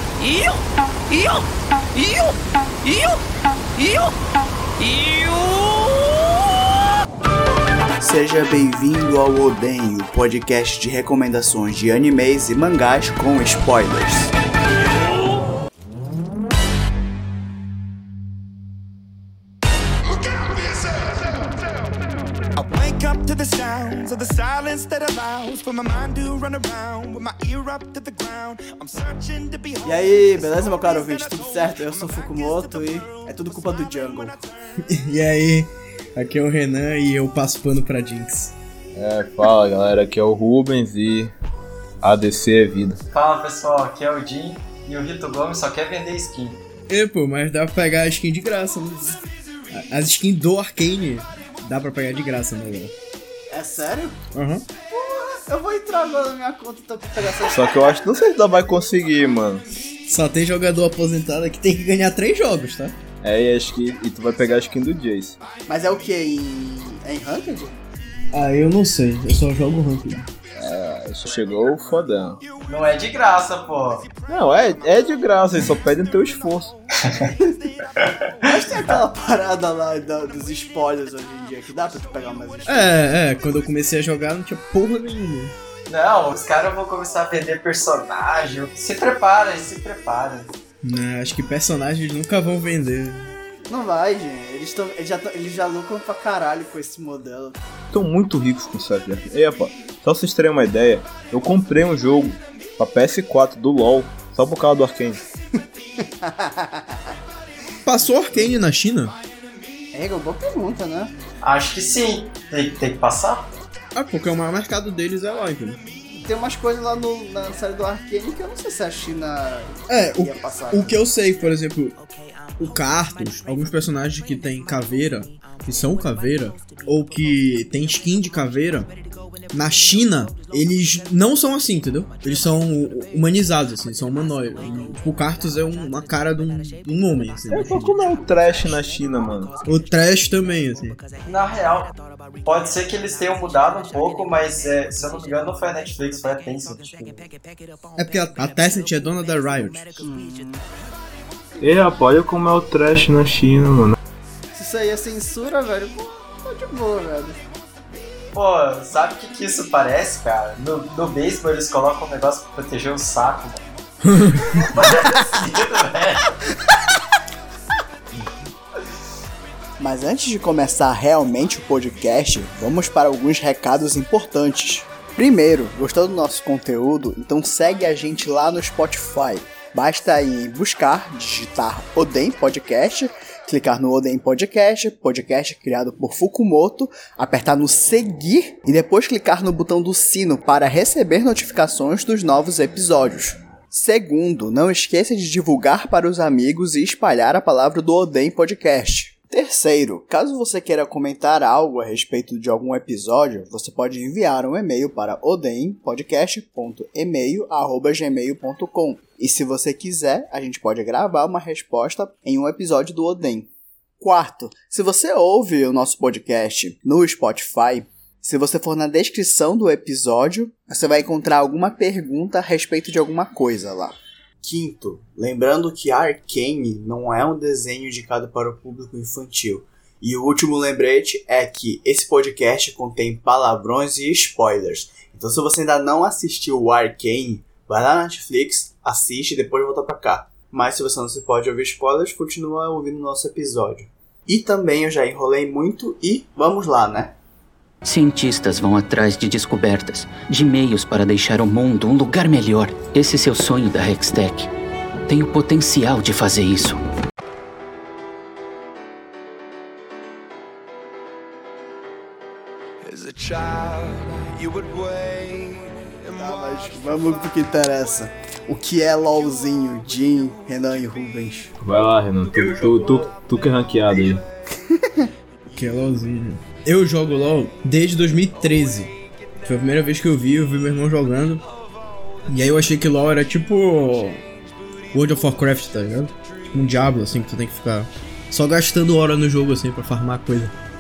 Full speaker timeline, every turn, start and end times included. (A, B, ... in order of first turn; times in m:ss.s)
0:00.2-0:03.2 A
0:03.8-0:04.1 A
0:04.8-0:06.6 A
0:08.0-0:14.3 B
0:14.8-0:15.3 A
0:20.1-0:21.9 A
0:22.6-0:34.4 A
0:29.8-0:34.4 B
0:34.9-0:38.6 C
0:38.9-0:41.3 D
0:42.0-0:43.0 D
0:43.1-0:46.6 E
0:46.9-0:49.2 C
0:49.7-0:52.9 C
0:53.5-0:54.2 B
0:54.3-0:54.6 C
0:55.1-0:58.0 B
0:57.5-0:59.7 D
1:00.1-1:03.0 C
1:03.2-1:05.4 D
1:05.7-1:07.8 B
1:08.3-1:10.3 C
1:10.6-1:12.4 D
1:12.7-1:14.1 E
1:14.3-1:16.8 D
1:17.0-1:17.3 E
1:18.4-1:23.0 B
1:22.7-1:25.5 C
1:25.9-1:30.5 E
1:30.8-1:33.3 C
1:33.7-1:37.6 B
1:37.9-1:45.2 D
1:46.0-1:47.0 B
1:47.8-1:49.2 C
1:49.9-1:51.1 B
1:51.4-1:53.5 E
1:53.9-1:55.8 C
1:56.1-2:01.0 B
1:59.9-2:02.0 C
2:02.6-2:08.9 C
2:09.5-2:17.9 C
2:17.5-2:19.5 D
2:19.6-2:21.0 C
2:21.3-2:27.3 E
2:28.0-2:30.1 C
2:30.0-2:30.7 B
2:31.6-2:34.0 D
2:34.5-2:37.4 B
2:38.3-2:43.6 E
2:44.0-2:44.6 C
2:44.7-2:46.4 E
2:49.8-3:33.5 B
3:34.0-4:07.1 B
4:07.8-4:14.5 F
4:15.1-4:16.8 F
4:22.8-4:27.1 A
4:26.2-4:31.5 B
4:31.6-4:34.2 D
4:34.7-4:35.1 B
4:35.5-4:38.9 C
4:39.4-4:41.4 C
4:42.3-4:44.2 C
4:44.9-4:50.5 C